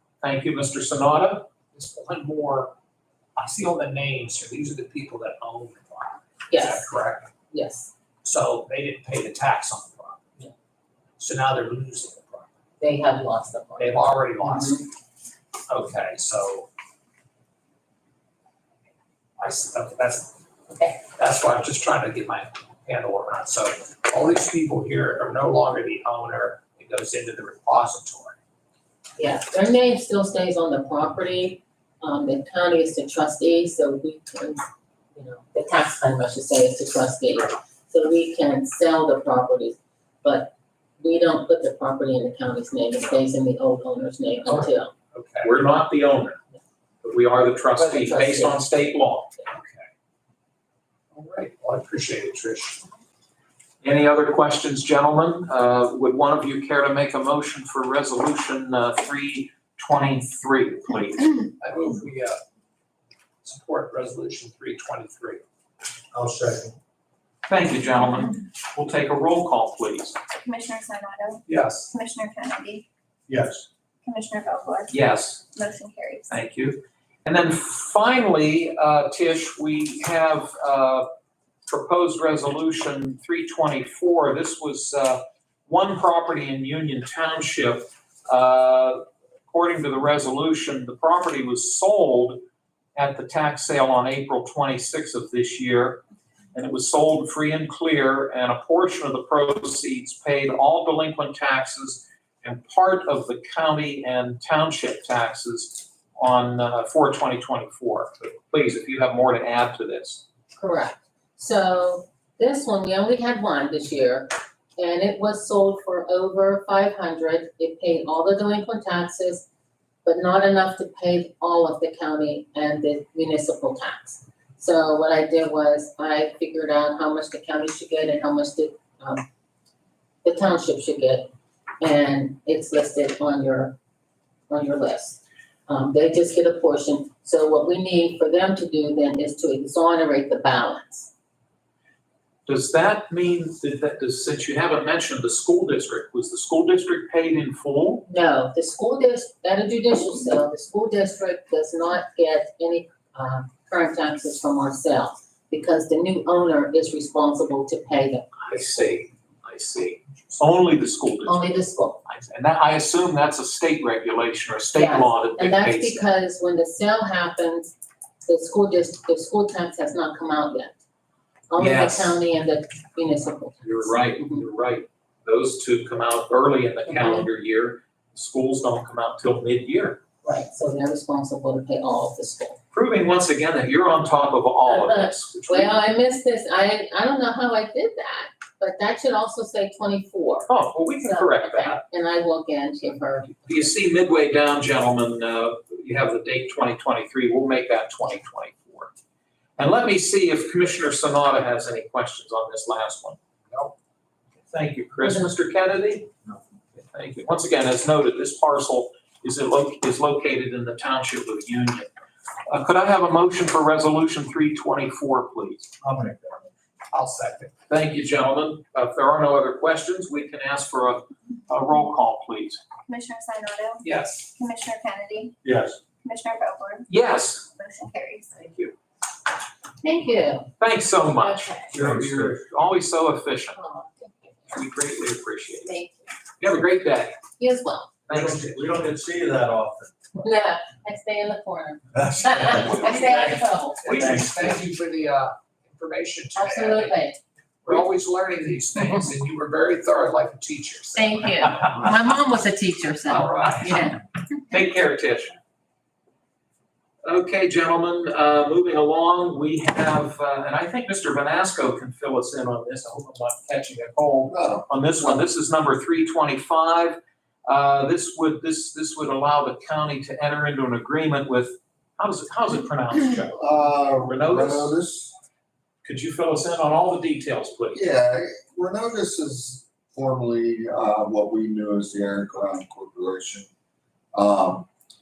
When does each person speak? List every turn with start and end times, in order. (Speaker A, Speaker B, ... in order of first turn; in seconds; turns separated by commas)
Speaker A: 0.2-1.5, Speaker B: 1.7-2.7, Speaker B: 3.4-7.3, Speaker C: 6.5-6.9, Speaker C: 7.5-7.9, Speaker B: 8.2-10.2, Speaker B: 11.2-12.5, Speaker C: 12.8-14.8, Speaker B: 13.8-14.8, Speaker B: 15.7-16.7, Speaker B: 19.4-20.3, Speaker B: 21.1-28.4, Speaker C: 29.2-34.6, Speaker C: 35.1-44.9, Speaker B: 44.5-45.5, Speaker A: 45.4-46.4, Speaker A: 47.0-49.3, Speaker C: 47.8-48.6, Speaker B: 49.5-49.9, Speaker B: 51.1-52.8, Speaker A: 53.8-61.4, Speaker B: 61.6-62.4, Speaker B: 63.4-65.4, Speaker D: 66.1-66.7, Speaker A: 67.5-70.2, Speaker E: 70.4-72.8, Speaker B: 71.5-71.9, Speaker D: 73.3-73.6, Speaker E: 74.0-74.9, Speaker A: 74.9-75.5, Speaker E: 75.5-76.3, Speaker A: 76.3-81.1, Speaker A: 81.7-92.4, Speaker A: 93.0-96.0, Speaker A: 96.5-110.2, Speaker C: 110.6-119.5, Speaker C: 120.0-129.2, Speaker C: 130.2-131.3, Speaker C: 131.8-133.8, Speaker C: 134.5-141.1, Speaker A: 142.4-148.1, Speaker C: 148.1-158.3, Speaker A: 158.4-161.4, Speaker C: 161.2-162.0, Speaker A: 162.0-166.0, Speaker C: 164.7-167.7, Speaker C: 168.2-170.7, Speaker C: 171.5-174.4, Speaker A: 171.6-172.2, Speaker A: 173.6-180.0, Speaker C: 176.9-177.2, Speaker C: 180.2-182.6, Speaker A: 182.7-185.7, Speaker C: 184.7-190.5, Speaker A: 190.5-191.8, Speaker C: 191.0-193.7, Speaker A: 193.5-198.9, Speaker A: 199.6-203.2, Speaker A: 204.5-206.1, Speaker A: 206.8-211.9, Speaker A: 212.5-215.7, Speaker D: 215.8-216.4, Speaker B: 216.9-217.5, Speaker A: 217.7-222.6, Speaker E: 222.9-225.3, Speaker B: 223.8-224.2, Speaker D: 225.4-225.8, Speaker E: 226.0-226.9, Speaker A: 226.9-227.5, Speaker E: 227.5-228.3, Speaker A: 228.3-228.7, Speaker C: 229.8-230.5, Speaker A: 230.6-233.6, Speaker C: 231.2-231.7, Speaker D: 231.8-232.3, Speaker C: 233.6-234.5, Speaker A: 234.5-235.7, Speaker C: 235.7-236.1, Speaker A: 236.4-237.2, Speaker C: 237.4-238.0, Speaker A: 238.1-238.6, Speaker D: 238.1-239.9, Speaker C: 240.2-244.1, Speaker D: 242.0-242.8, Speaker B: 242.7-247.0, Speaker D: 243.9-244.6, Speaker C: 246.3-247.2, Speaker B: 247.6-251.7, Speaker C: 250.9-254.0, Speaker B: 253.1-253.8, Speaker A: 254.5-255.3, Speaker A: 257.0-274.7, Speaker F: 264.3-265.2, Speaker F: 273.1-275.1, Speaker A: 275.8-277.8, Speaker F: 277.7-283.5, Speaker F: 284.1-284.7